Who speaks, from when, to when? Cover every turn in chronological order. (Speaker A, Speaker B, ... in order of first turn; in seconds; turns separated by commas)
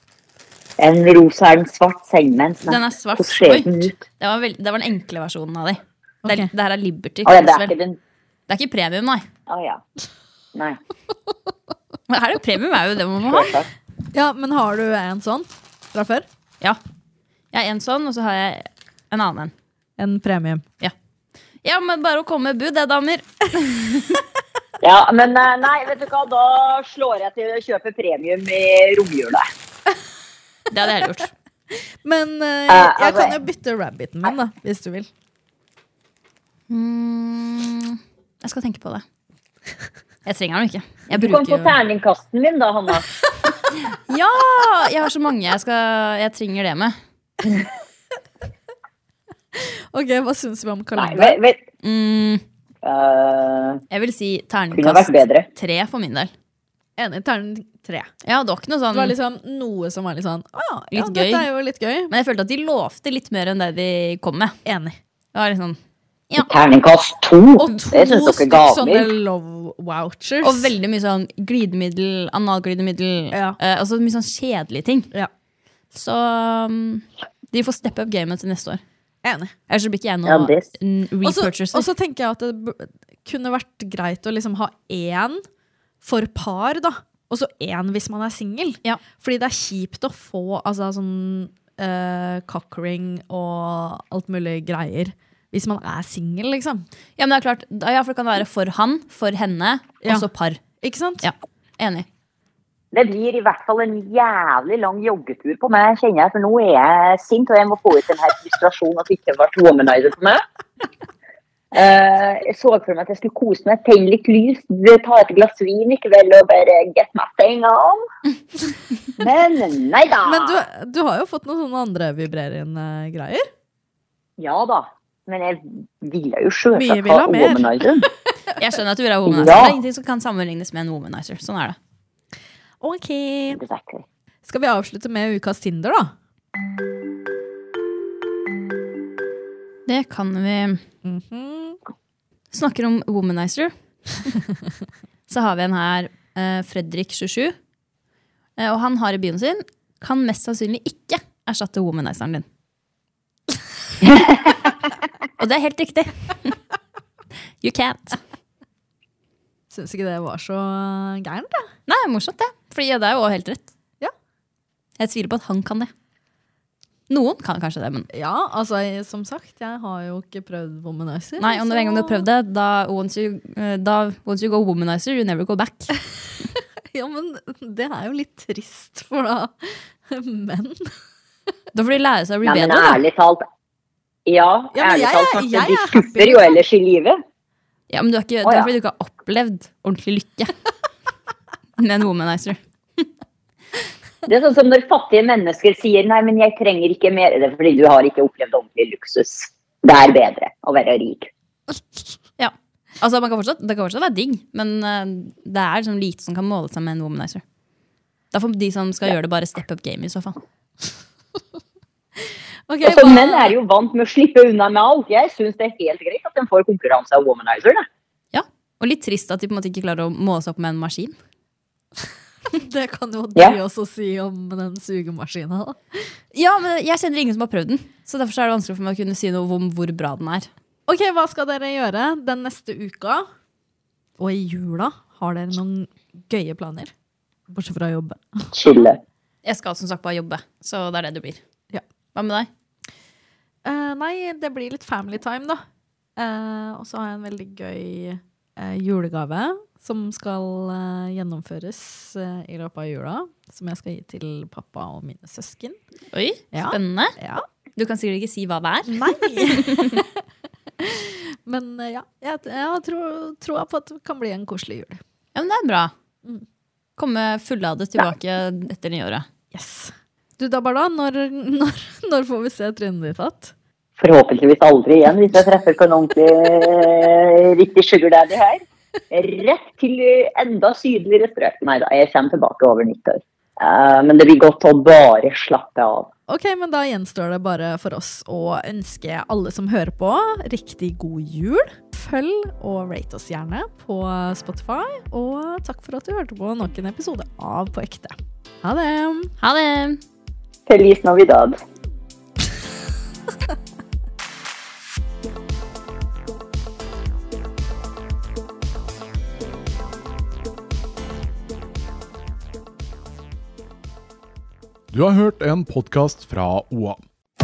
Speaker A: 0.8-4.0, Speaker B: 2.7-7.7, Speaker C: 6.2-6.5, Speaker A: 7.2-8.0, Speaker B: 8.5-9.2, Speaker A: 9.5-9.8, Speaker A: 10.5-10.8, Speaker B: 12.1-13.6, Speaker A: 13.2-13.7, Speaker C: 14.1-16.2, Speaker B: 17.5-19.5, Speaker C: 20.0-20.6, Speaker B: 21.6-24.2, Speaker A: 24.8-29.4, Speaker B: 30.7-31.3, Speaker C: 32.0-35.1, Speaker A: 32.7-33.4, Speaker B: 36.7-39.0, Speaker B: 40.2-41.5, Speaker A: 41.1-43.1, Speaker C: 41.3-41.7, Speaker B: 43.9-46.9, Speaker C: 49.5-51.4, Speaker A: 51.0-51.6, Speaker B: 51.8-52.4, Speaker A: 52.8-53.8, Speaker B: 53.9-56.3, Speaker A: 54.7-55.5, Speaker C: 57.0-58.1, Speaker B: 58.2-59.1, Speaker C: 58.9-62.1, Speaker B: 60.9-61.5, Speaker B: 62.1-64.5, Speaker C: 64.7-65.0, Speaker B: 65.3-65.8, Speaker A: 66.4-69.1, Speaker C: 67.7-70.7, Speaker B: 70.4-75.1, Speaker C: 73.3-73.6, Speaker B: 75.9-78.8, Speaker C: 79.2-79.5, Speaker B: 79.7-81.9, Speaker A: 80.2-80.7, Speaker C: 81.2-85.4, Speaker C: 86.0-96.8, Speaker B: 97.2-100.6, Speaker C: 100.8-101.3, Speaker B: 101.2-102.0, Speaker A: 102.9-110.4, Speaker A: 111.7-118.0, Speaker A: 119.2-120.6, Speaker C: 120.2-123.5, Speaker A: 124.4-128.1, Speaker C: 126.7-127.8, Speaker B: 128.6-131.8, Speaker A: 129.2-129.8, Speaker C: 132.8-133.6, Speaker A: 133.5-134.0, Speaker C: 134.4-136.1, Speaker B: 139.9-140.8, Speaker C: 141.0-141.8, Speaker B: 142.5-143.7, Speaker B: 145.3-147.5, Speaker B: 148.6-152.4, Speaker A: 154.0-154.5, Speaker B: 155.4-156.5, Speaker B: 157.6-158.2, Speaker C: 159.7-161.7, Speaker B: 161.9-163.7, Speaker B: 165.0-165.9, Speaker B: 167.1-168.1, Speaker C: 168.1-172.2, Speaker B: 171.4-175.9, Speaker C: 176.9-180.9, Speaker B: 181.7-183.0, Speaker A: 182.4-183.4, Speaker A: 184.2-187.2, Speaker C: 184.7-186.6, Speaker B: 187.9-190.5, Speaker B: 191.8-193.0, Speaker A: 194.2-201.3, Speaker B: 202.4-207.4, Speaker B: 208.3-210.4, Speaker C: 212.7-213.5, Speaker A: 212.8-217.8, Speaker B: 218.3-221.1, Speaker C: 222.5-226.0, Speaker B: 226.3-230.5, Speaker C: 230.9-233.2, Speaker C: 234.2-236.9, Speaker C: 237.5-238.5, Speaker A: 238.5-239.0, Speaker B: 239.4-241.4, Speaker B: 242.1-242.5, Speaker C: 243.7-245.6, Speaker C: 246.2-255.8, Speaker B: 256.1-257.1, Speaker C: 256.5-257.4, Speaker B: 257.8-260.0, Speaker C: 258.9-260.1, Speaker C: 260.8-265.0, Speaker B: 265.3-265.9, Speaker B: 267.0-269.2, Speaker C: 269.5-273.5, Speaker A: 274.0-286.1, Speaker C: 286.3-299.3, Speaker B: 299.4-300.0, Speaker A: 300.7-301.5, Speaker D: 314.9-317.0